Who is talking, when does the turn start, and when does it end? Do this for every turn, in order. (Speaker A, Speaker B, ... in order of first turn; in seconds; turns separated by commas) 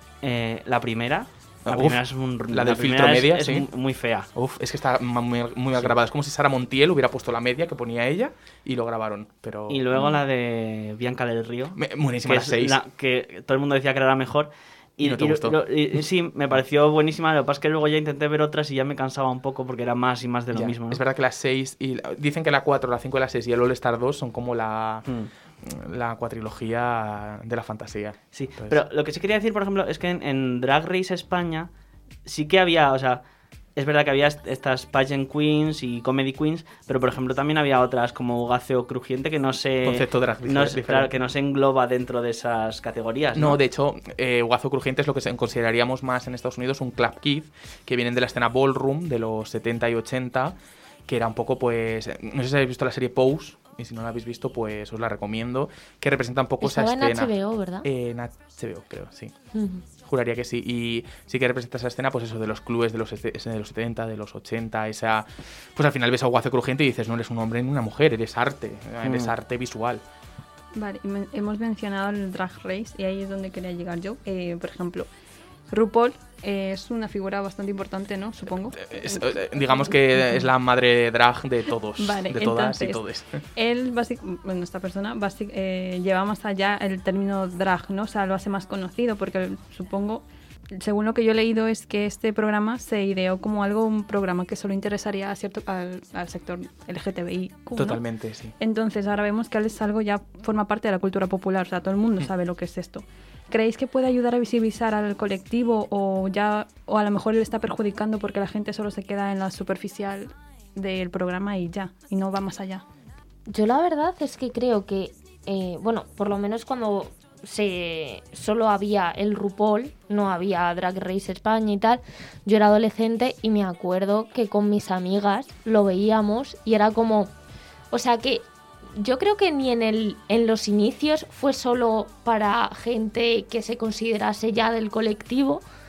Speaker A: 0.2-4.3, Speaker B: 1.6-3.7, Speaker B: 4.3-9.9, Speaker A: 9.7-21.0, Speaker B: 11.8-12.8, Speaker B: 15.0-15.6, Speaker B: 20.5-25.1, Speaker B: 25.6-28.8, Speaker A: 28.3-31.7, Speaker A: 32.2-33.2, Speaker A: 33.8-43.6, Speaker B: 39.8-41.1, Speaker B: 43.3-50.5, Speaker B: 51.1-59.3, Speaker C: 56.6-57.9, Speaker C: 59.5-59.8, Speaker B: 60.0-70.0, Speaker A: 69.0-69.3, Speaker D: 70.7-75.1, Speaker D: 75.7-80.2, Speaker B: 78.8-83.4, Speaker D: 82.0-83.0, Speaker D: 83.5-98.0, Speaker B: 97.7-98.5, Speaker D: 98.6-112.8, Speaker C: 113.5-127.3, Speaker C: 127.9-135.6